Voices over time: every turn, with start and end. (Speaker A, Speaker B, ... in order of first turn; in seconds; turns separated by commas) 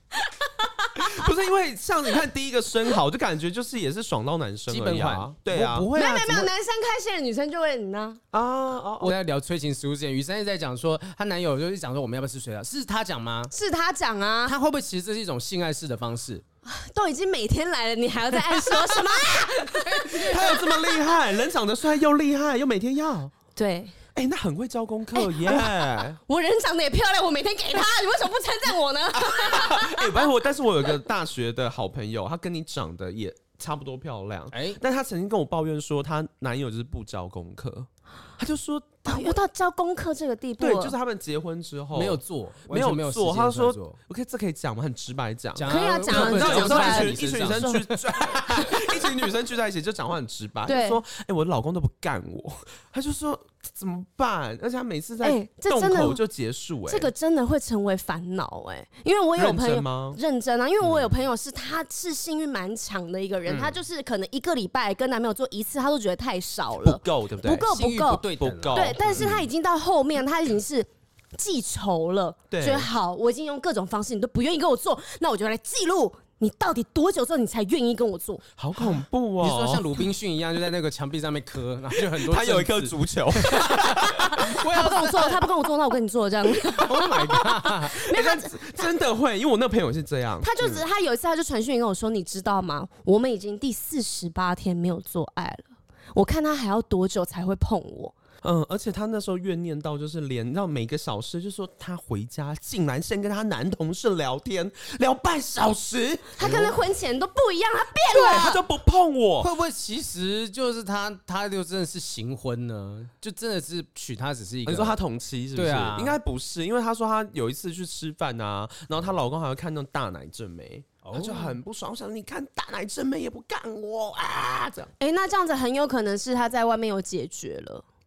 Speaker A: 0.1-1.3, Speaker B: 1.0-5.9, Speaker C: 4.7-6.5, Speaker A: 5.9-8.2, Speaker B: 8.3-9.1, Speaker C: 9.0-13.5, Speaker A: 13.5-14.5, Speaker C: 14.4-16.4, Speaker A: 16.6-21.2, Speaker B: 20.1-23.3, Speaker A: 23.6-23.9, Speaker B: 24.1-26.2, Speaker A: 25.1-30.1, Speaker B: 29.2-39.4, Speaker C: 34.5-34.8, Speaker A: 39.0-40.9, Speaker B: 40.6-57.1, Speaker C: 41.9-44.0, Speaker C: 45.5-48.8, Speaker A: 45.6-47.7, Speaker A: 50.6-51.0, Speaker A: 55.2-56.2, Speaker A: 56.9-78.4, Speaker B: 59.4-60.2, Speaker C: 63.5-63.7, Speaker B: 66.8-67.7, Speaker C: 67.6-69.4, Speaker B: 68.2-69.4, Speaker B: 72.5-72.9, Speaker B: 78.6-79.9, Speaker C: 79.4-85.5, Speaker B: 82.0-84.3, Speaker A: 83.6-88.9, Speaker C: 86.6-88.0, Speaker B: 88.1-90.8, Speaker A: 90.4-98.1, Speaker B: 98.4-106.8, Speaker A: 106.4-108.6, Speaker C: 106.4-106.7, Speaker B: 108.1-109.5, Speaker C: 109.4-115.0, Speaker B: 114.7-124.9, Speaker C: 115.5-116.2, Speaker C: 121.0-121.5, Speaker A: 125.0-127.8